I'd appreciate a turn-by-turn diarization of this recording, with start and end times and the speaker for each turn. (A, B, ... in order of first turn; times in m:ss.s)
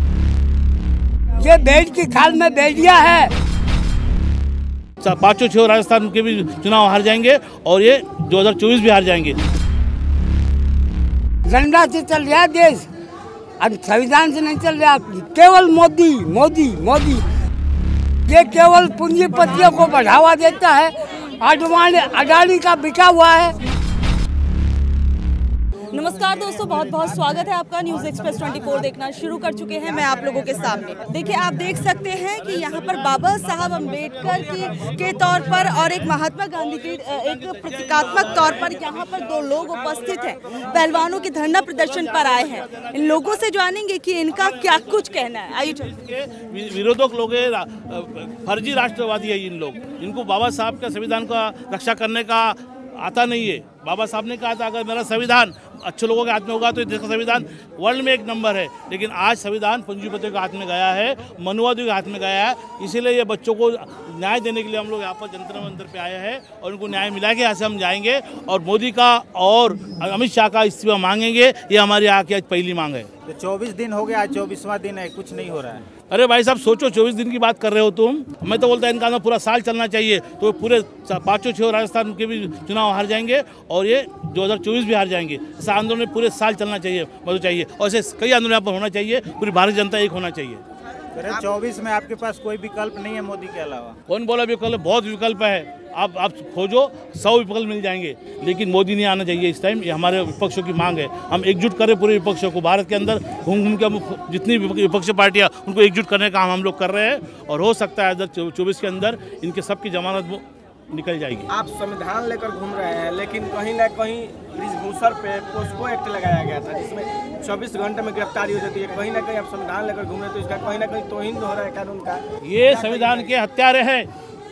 0:01.4-0:03.3 A
0:05.0-0:09.4 B
0:11.5-0:12.8 A
0:13.6-0:17.2 A
0:18.3-0:23.5 A
0:25.9-0:45.9 C
0:38.0-0:38.8 B
0:41.6-0:43.4 B
0:45.9-1:13.1 B
1:13.2-1:15.9 D
1:16.1-1:30.6 B
1:31.1-1:34.0 D
1:34.1-1:51.5 B
1:51.5-2:03.3 E
2:02.4-2:04.1 B